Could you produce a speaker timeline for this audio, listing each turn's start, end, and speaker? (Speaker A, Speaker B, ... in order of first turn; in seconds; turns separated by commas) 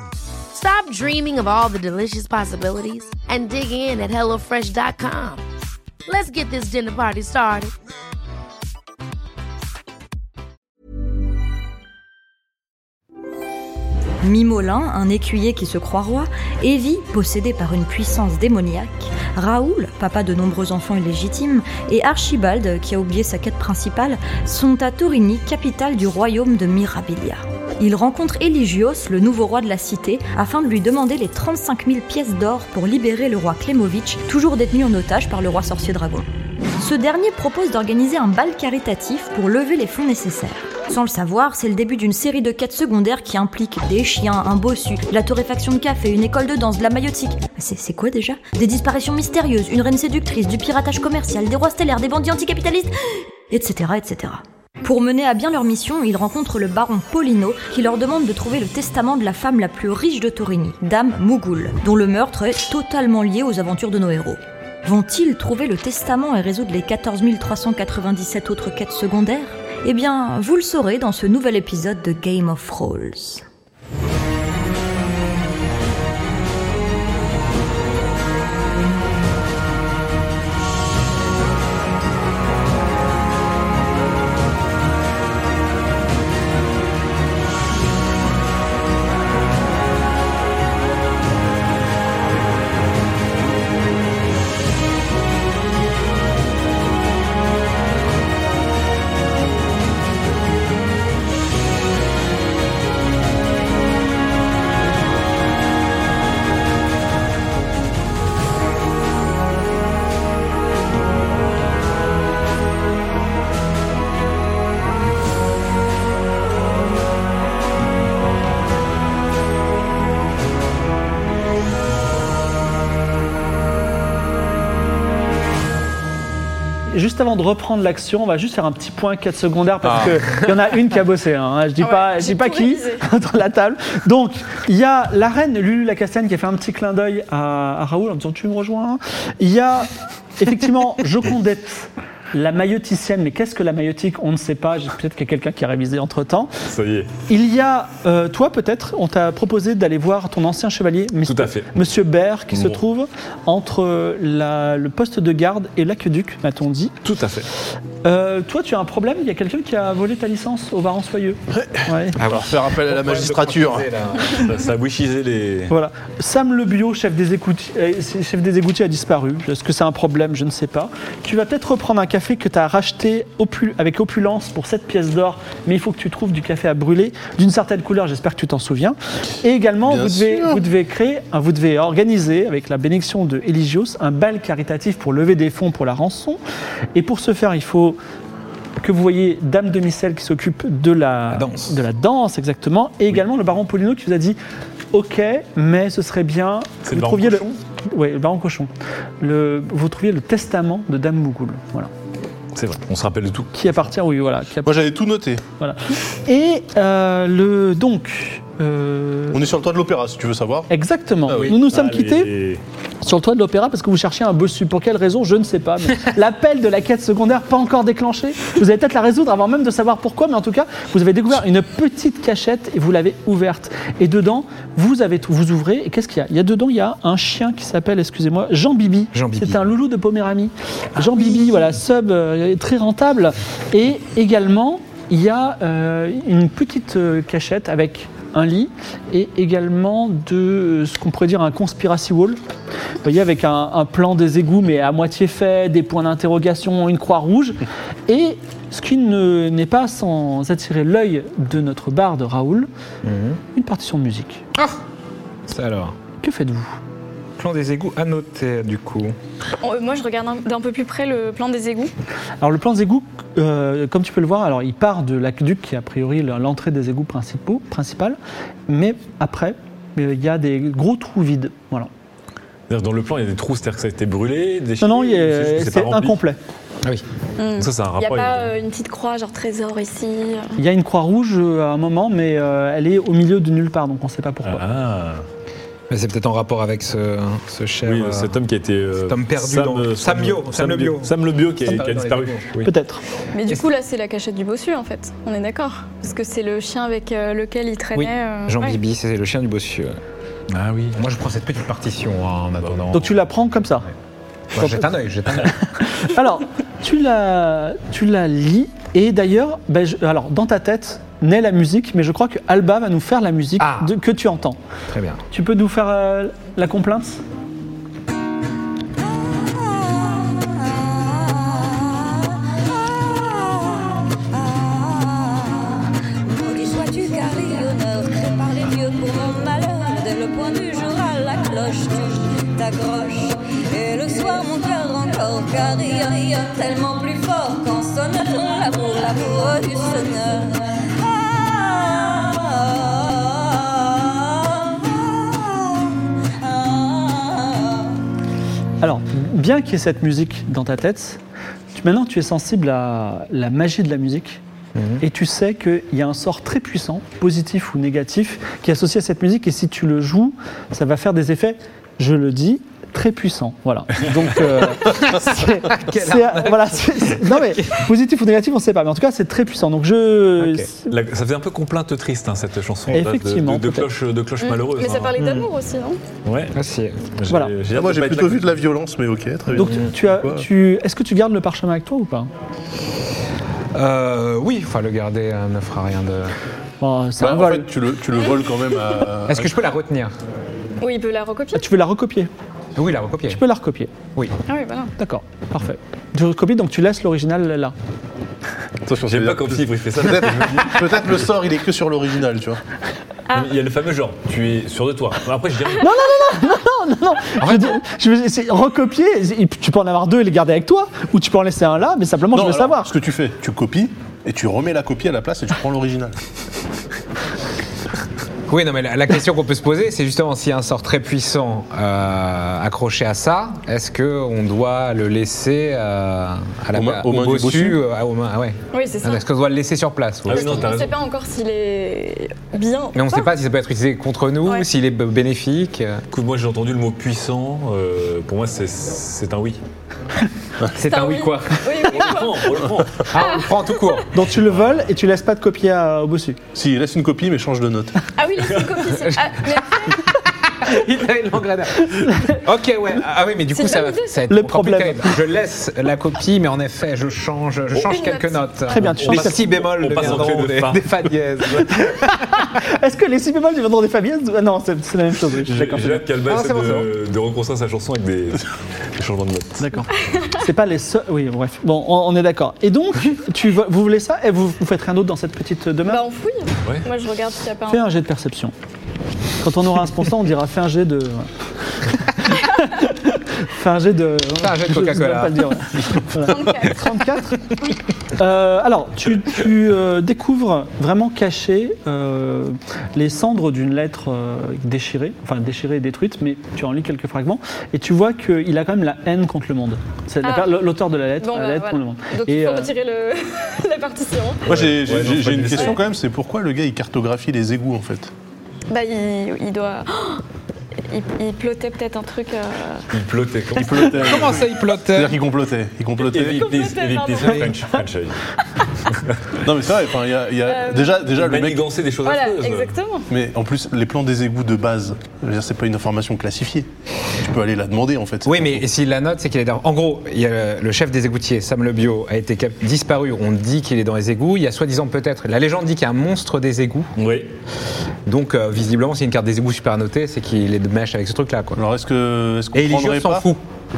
Speaker A: 0.5-5.4, Speaker A: 6.0-7.7, Speaker B: 14.2-36.3, Speaker B: 36.8-53.0, Speaker B: 53.5-73.4, Speaker C: 126.9-146.5, Speaker D: 131.8-133.0, Speaker E: 146.7-147.1, Speaker C: 147.3-157.0, Speaker E: 151.2-151.8, Speaker E: 152.5-152.8, Speaker E: 157.0-157.5, Speaker C: 158.0-162.2, Speaker F: 161.5-163.9, Speaker G: 162.2-164.5, Speaker E: 164.3-165.7, Speaker C: 165.7-186.4, Speaker F: 179.8-180.6, Speaker C: 186.9-188.0, Speaker C: 188.8-194.4, Speaker G: 191.3-191.8, Speaker C: 194.9-198.7, Speaker E: 196.9-197.5, Speaker C: 199.2-201.9, Speaker E: 202.5-203.5, Speaker C: 203.5-204.8, Speaker F: 204.6-205.4, Speaker C: 205.6-209.4, Speaker F: 209.3-210.7, Speaker C: 210.7-212.3, Speaker F: 211.3-211.6, Speaker E: 211.3-212.6, Speaker C: 213.0-242.4, Speaker G: 229.1-229.7, Speaker C: 243.0-252.7, Speaker G: 253.0-253.4, Speaker C: 253.5-254.4, Speaker G: 254.5-254.8, Speaker G: 255.5-255.9, Speaker C: 256.2-256.8, Speaker G: 257.4-259.1, Speaker D: 259.6-261.9, Speaker C: 262.4-271.9, Speaker E: 272.7-276.2, Speaker C: 274.8-276.4, Speaker D: 277.4-280.6, Speaker E: 277.6-278.5, Speaker C: 280.6-284.6, Speaker E: 284.4-285.2, Speaker G: 285.9-288.4, Speaker E: 287.8-292.7, Speaker G: 289.0-292.4, Speaker C: 292.6-293.0, Speaker D: 293.3-298.8, Speaker G: 297.9-300.0, Speaker E: 300.5-301.0, Speaker G: 300.9-303.2, Speaker C: 302.9-303.9, Speaker G: 304.5-305.5, Speaker C: 305.5-314.6, Speaker G: 313.6-313.9, Speaker G: 314.9-315.2, Speaker C: 315.3-317.2, Speaker H: 319.1-347.9, Speaker C: 348.8-351.2, Speaker C: 351.7-354.4, Speaker G: 354.7-355.0, Speaker C: 355.0-370.9, Speaker G: 365.1-367.8, Speaker G: 370.4-370.7, Speaker E: 370.9-375.1, Speaker C: 372.9-373.9, Speaker D: 374.4-376.0, Speaker G: 375.2-375.5, Speaker E: 376.2-376.6, Speaker G: 376.5-377.1, Speaker E: 377.1-378.5, Speaker C: 377.3-377.5, Speaker F: 377.7-380.4, Speaker C: 379.5-382.3, Speaker G: 383.7-386.3, Speaker C: 386.8-387.7, Speaker F: 387.2-389.5, Speaker G: 389.3-390.1, Speaker D: 390.8-391.6, Speaker C: 391.5-392.3, Speaker G: 392.8-393.4, Speaker C: 393.3-393.9, Speaker D: 394.5-394.9, Speaker C: 395.0-397.7, Speaker F: 398.9-402.6, Speaker E: 399.0-401.0, Speaker E: 403.3-405.9, Speaker C: 405.8-412.9, Speaker G: 407.4-407.7, Speaker F: 412.3-416.2, Speaker G: 418.5-430.8, Speaker F: 426.7-427.8, Speaker D: 428.7-429.2, Speaker E: 430.2-430.9, Speaker D: 430.3-433.3, Speaker G: 432.9-436.0, Speaker E: 436.1-439.6, Speaker G: 440.7-442.2, Speaker D: 440.9-442.6, Speaker E: 441.9-443.2, Speaker G: 443.1-444.1, Speaker C: 444.1-446.4, Speaker E: 444.4-444.8, Speaker F: 446.5-448.1, Speaker D: 448.1-450.1, Speaker E: 448.5-448.9, Speaker G: 450.6-462.4, Speaker C: 452.1-452.3, Speaker D: 453.5-454.3, Speaker C: 454.3-455.2, Speaker D: 457.9-458.7, Speaker C: 458.7-460.1, Speaker E: 459.0-461.0, Speaker C: 462.4-466.0, Speaker E: 465.4-469.8, Speaker G: 466.2-466.9, Speaker C: 469.6-476.0, Speaker D: 470.0-470.3, Speaker D: 475.9-477.8, Speaker C: 477.7-478.5, Speaker C: 479.4-481.3, Speaker C: 481.9-487.4, Speaker G: 484.4-485.6, Speaker D: 486.3-486.9, Speaker C: 488.1-502.7, Speaker D: 500.2-500.6, Speaker D: 501.2-504.6, Speaker F: 504.5-508.1, Speaker E: 504.5-505.8, Speaker D: 505.5-505.8, Speaker D: 508.7-510.2, Speaker D: 510.9-512.9, Speaker E: 512.9-514.5, Speaker F: 513.5-516.5, Speaker G: 514.0-515.2, Speaker E: 516.0-518.2, Speaker D: 516.2-517.5, Speaker F: 519.4-521.6, Speaker D: 520.4-521.1, Speaker E: 521.1-522.8, Speaker D: 522.0-523.1, Speaker F: 523.1-528.6, Speaker G: 528.2-536.9, Speaker E: 537.0-537.3, Speaker G: 538.0-541.6, Speaker F: 541.5-543.2, Speaker G: 542.5-543.4